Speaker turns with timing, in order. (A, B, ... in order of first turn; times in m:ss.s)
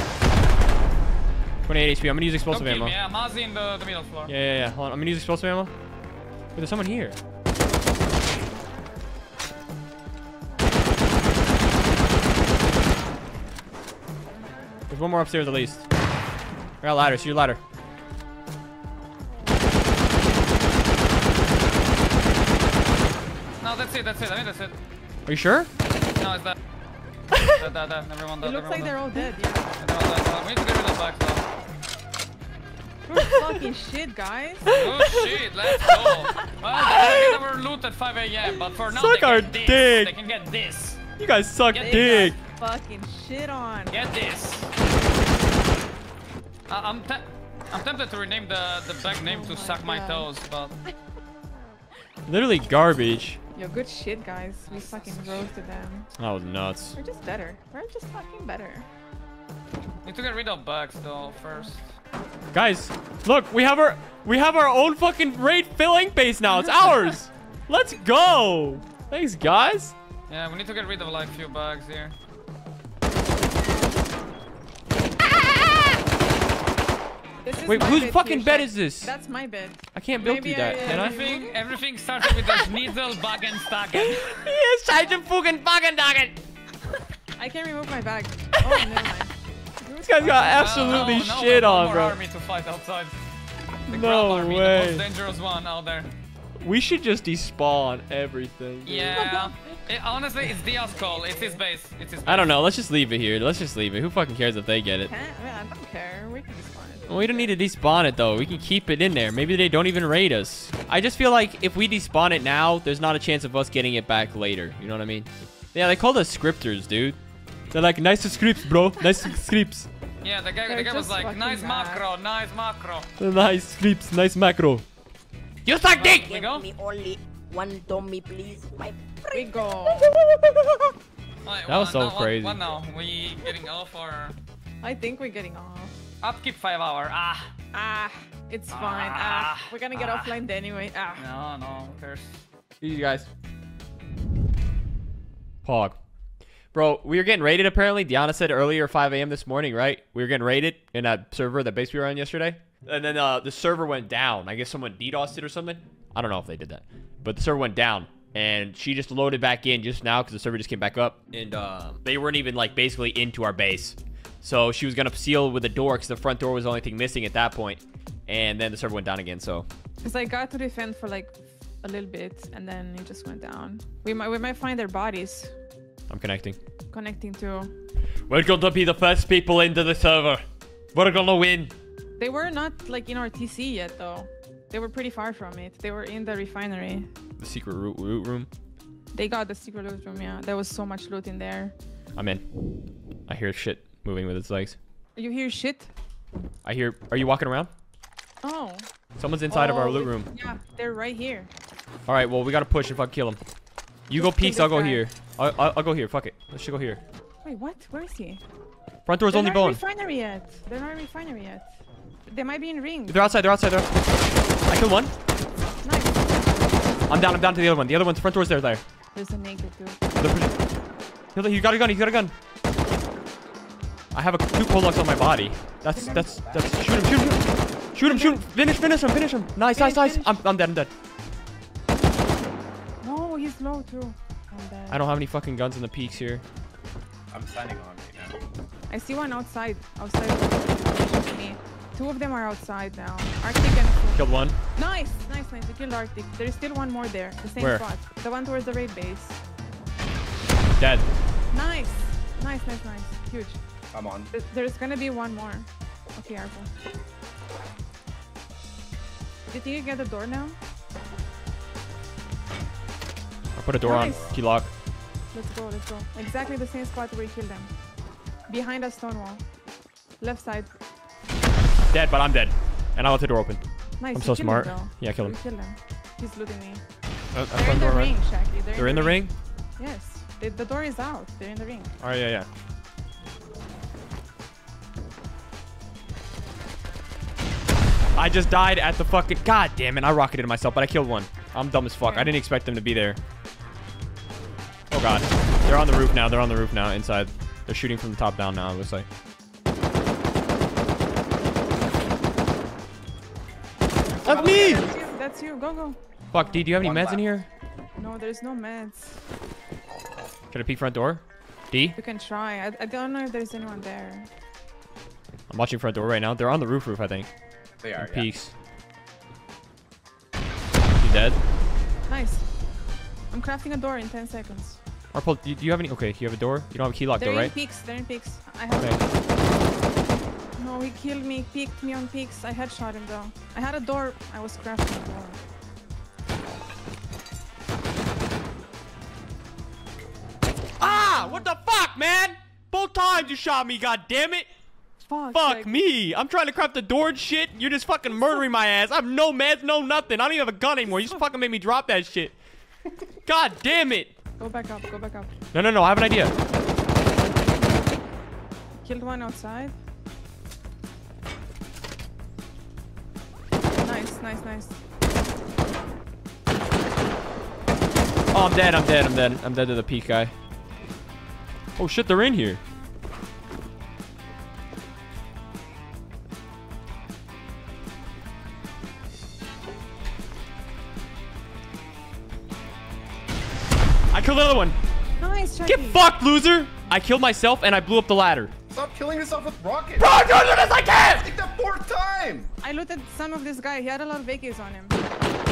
0:01.7-0:03.0 A
0:02.5-0:04.3 B
0:04.3-0:05.7 A
0:06.6-0:07.2 A
0:14.9-0:15.8 A
0:16.8-0:17.6 A
0:23.6-0:24.8 B
0:25.3-0:25.7 A
0:26.2-0:26.6 B
0:27.3-0:27.6 A
0:27.5-0:29.0 B
0:28.4-0:29.8 C
0:29.8-0:31.4 B
0:33.0-0:34.8 C
0:34.7-0:41.0 B
0:35.7-0:37.4 A
0:38.9-0:40.2 A
0:41.2-0:42.4 A
0:41.8-0:42.2 B
0:41.8-0:44.0 C
0:43.9-0:44.7 B
0:46.7-0:50.8 B
0:49.1-0:50.3 C
0:52.3-0:53.4 A
0:53.6-0:56.1 C
0:54.7-0:55.4 B
0:56.2-0:57.0 A
0:57.0-0:58.9 C
1:00.0-1:01.9 B
1:02.5-1:09.9 A
1:10.3-1:12.2 B
1:15.3-1:15.9 A
1:17.4-1:21.6 C
1:17.7-1:19.1 A
1:19.9-1:21.2 A
1:20.7-1:24.4 B
1:24.0-1:26.4 A
1:27.4-1:31.1 C
1:28.6-1:29.0 A
1:30.0-1:32.2 A
1:30.6-1:33.2 B
1:33.9-1:36.1 B
1:33.9-1:35.0 A
1:36.6-1:39.2 A
1:38.8-1:42.6 B
1:39.1-1:39.8 C
1:41.0-1:41.6 C
1:42.3-1:45.1 A
1:45.0-1:47.5 C
1:47.1-1:57.2 A
1:57.7-1:59.9 A
2:00.2-2:03.1 B
2:00.7-2:02.0 C
2:03.2-2:04.8 A
2:05.7-2:06.3 A
2:05.9-2:06.7 B
2:06.1-2:09.7 D
2:09.3-2:10.1 C
2:11.4-2:14.4 B
2:11.7-2:12.6 A
2:14.8-2:16.0 C
2:16.2-2:17.5 B
2:17.7-2:21.3 C
2:18.7-2:20.4 B
2:21.2-2:22.4 B
2:22.8-2:23.3 A
2:25.6-2:26.0 A
2:26.7-2:49.7 A
2:50.0-2:55.5 C
2:56.1-2:56.6 A
2:56.9-2:57.7 C
2:58.3-3:01.7 A
3:02.2-3:07.1 C
3:07.4-3:08.5 A
3:09.1-3:11.8 C
3:12.2-3:12.4 A
3:13.3-3:14.8 A
3:15.2-3:15.9 C
3:16.6-3:17.7 A
3:18.4-3:18.9 C
3:19.2-3:20.3 A
3:19.5-3:21.5 C
3:22.1-3:23.4 A
3:24.1-3:27.0 A
3:24.1-3:25.0 C
3:27.4-3:28.4 C
3:29.1-3:29.8 A
3:29.3-3:31.7 C
3:32.3-3:33.3 C
3:33.1-3:34.0 A
3:34.7-3:35.1 A
3:35.8-3:36.6 C
3:37.1-3:38.8 A
3:39.1-3:40.0 C
3:40.2-3:40.6 A
3:41.4-3:42.3 A
3:44.1-3:50.9 A
3:46.0-3:46.4 C
3:46.0-3:46.8 E
3:48.0-3:48.5 C
3:49.8-3:50.4 C
3:53.0-3:55.0 C
3:54.9-3:56.4 A
3:57.3-3:58.4 E
3:58.9-4:09.4 C
4:04.2-4:04.6 A
4:07.6-4:07.8 A
4:10.8-4:11.1 A
4:11.5-4:13.6 C
4:13.9-4:14.3 E
4:14.3-4:16.7 C
4:19.5-4:20.6 C
4:23.6-4:24.7 A
4:23.8-4:24.4 C
4:23.9-4:24.4 E
4:25.3-4:27.7 C
4:28.5-4:29.4 C
4:30.2-4:30.7 C
4:31.9-4:33.6 A
4:34.0-4:36.8 C
4:34.1-4:35.4 A
4:37.3-4:38.2 A
4:37.5-4:42.0 C
4:38.8-4:39.3 A
4:42.0-4:42.5 A
4:48.2-4:53.2 A
4:52.0-4:52.4 C
4:54.9-4:59.1 A
5:04.1-5:05.1 E
5:04.2-5:04.9 A
5:04.2-5:06.7 C
5:06.3-5:07.5 A
5:06.7-5:07.3 E
5:08.0-5:09.2 C
5:10.5-5:12.0 A
5:12.0-5:14.3 C
5:15.5-5:17.3 A
5:17.8-5:18.3 E
5:18.0-5:18.5 A
5:21.0-5:21.4 A
5:22.1-5:22.5 C
5:23.3-5:24.8 C
5:25.1-5:27.5 A
5:27.2-5:29.1 C
5:30.6-5:35.4 C
5:40.8-5:44.5 A
5:40.8-5:41.5 C
5:45.0-5:45.7 C
5:45.3-5:52.3 A
5:53.3-5:54.1 A
5:54.4-5:55.3 C
5:55.5-5:56.3 A
5:58.8-5:59.8 C
6:03.8-6:04.8 C
6:08.3-6:10.3 A
6:11.8-6:12.6 A
6:24.1-6:24.8 A
6:25.2-6:26.0 C
6:25.6-6:28.5 A
6:28.7-6:30.2 E
6:30.0-6:31.3 A
6:31.0-6:32.5 E
6:32.6-6:35.0 C